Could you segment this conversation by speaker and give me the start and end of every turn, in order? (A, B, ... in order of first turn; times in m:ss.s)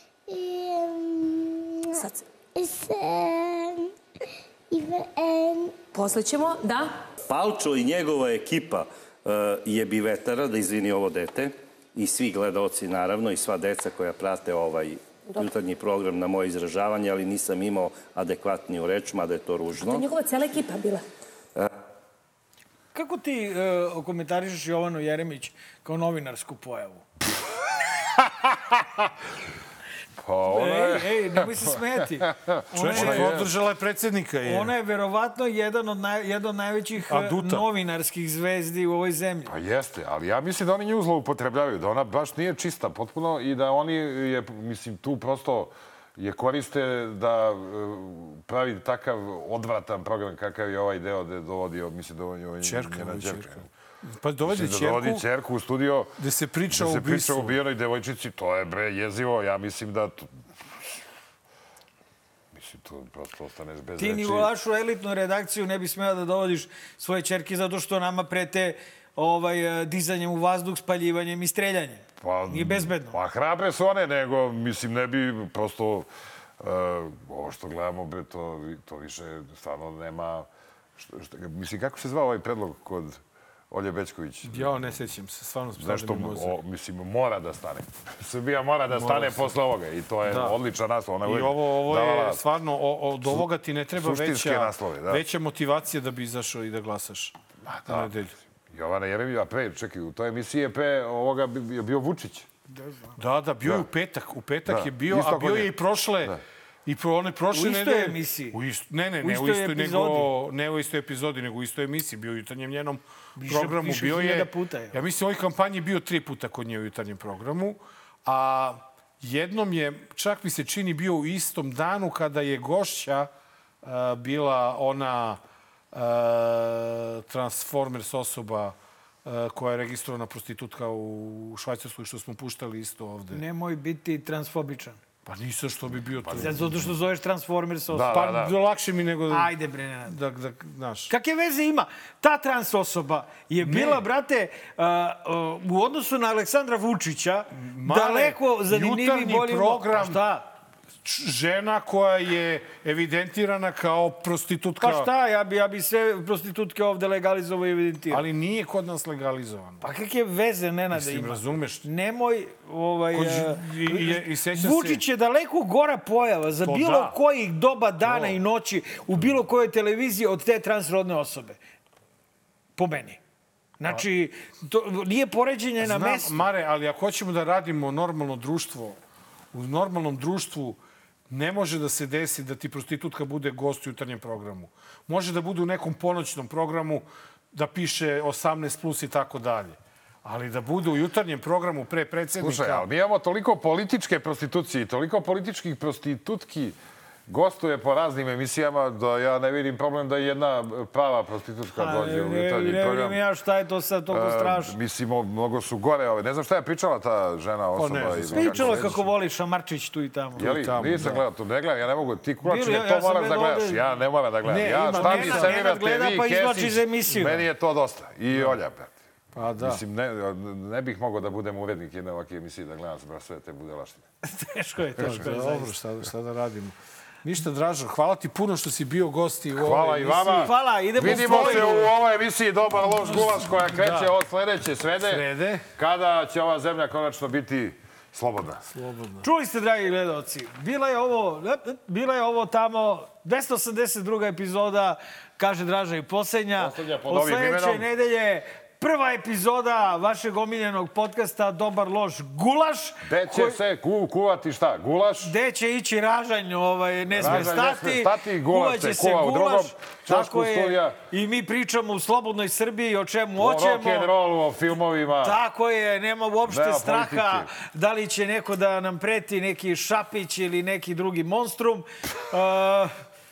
0:00.3-0:03.9 A
0:02.0-0:02.2 B
0:04.7-0:05.9 A
0:05.9-0:07.0 B
0:07.2-0:20.0 C
0:19.8-0:21.0 B
0:22.9-0:27.0 D
0:28.2-0:29.1 E
0:30.2-0:31.5 E
0:30.5-0:33.4 D
0:32.2-0:33.5 E
0:32.7-0:34.7 F
0:34.4-0:39.5 D
0:37.1-0:37.7 F
0:39.5-0:53.6 E
0:52.6-0:55.2 F
0:54.4-0:56.1 E
0:56.2-0:57.6 F
0:56.7-1:00.3 E
1:02.5-1:04.5 E
1:04.0-1:13.2 D
1:12.2-1:16.1 E
1:16.6-1:24.9 E
1:24.4-1:26.6 F
1:25.8-1:32.4 E
1:28.9-1:29.5 F
1:30.2-1:30.6 F
1:31.2-1:38.3 F
1:34.0-1:35.2 E
1:38.7-1:42.5 E
1:42.7-1:43.1 D
1:43.2-2:03.3 F
1:44.7-1:45.7 E
1:47.5-1:48.6 D
1:49.2-1:50.3 D
1:53.4-1:55.0 D
2:03.8-2:05.4 F
2:05.9-2:13.4 F
2:13.3-2:15.0 D
2:15.2-2:16.6 F
2:16.3-2:16.7 E
2:16.3-2:18.2 D
2:17.9-2:18.5 E
2:18.1-2:19.5 F
2:19.3-2:20.2 D
2:20.0-2:21.1 F
2:21.1-2:30.4 D
2:23.6-2:24.0 F
2:27.5-2:30.2 F
2:31.0-2:35.1 F
2:34.8-2:38.2 D
2:38.1-2:39.8 F
2:39.8-2:51.6 D
2:40.9-2:41.9 F
2:43.1-2:45.0 F
2:46.6-2:47.2 F
2:48.0-2:48.4 F
2:52.8-2:53.2 D
2:53.8-2:56.4 D
2:55.8-2:59.0 F
2:59.5-3:00.8 F
3:01.3-3:12.9 F
3:12.4-3:16.8 E
3:17.3-3:23.2 E
3:21.8-3:24.8 D
3:24.1-3:29.0 E
3:27.7-3:28.9 F
3:28.3-3:30.5 D
3:30.4-3:31.2 F
3:30.4-3:38.9 E
3:32.4-3:34.0 D
3:34.4-3:35.6 F
3:34.9-3:37.4 D
3:38.3-3:38.6 F
3:39.3-3:39.8 F
3:39.6-3:44.0 E
3:44.2-3:45.7 D
3:45.0-3:51.9 F
3:49.6-3:55.2 E
3:50.4-3:51.9 D
3:53.1-3:54.1 F
3:55.0-3:55.6 F
3:55.8-3:58.6 E
3:58.6-3:59.3 F
3:59.2-4:13.6 D
4:06.6-4:07.9 E
4:13.0-4:15.3 E
4:15.2-4:24.1 D
4:17.1-4:21.0 E
4:17.2-4:17.7 F
4:23.4-4:25.4 E
4:25.2-4:32.9 D
4:26.5-4:27.5 E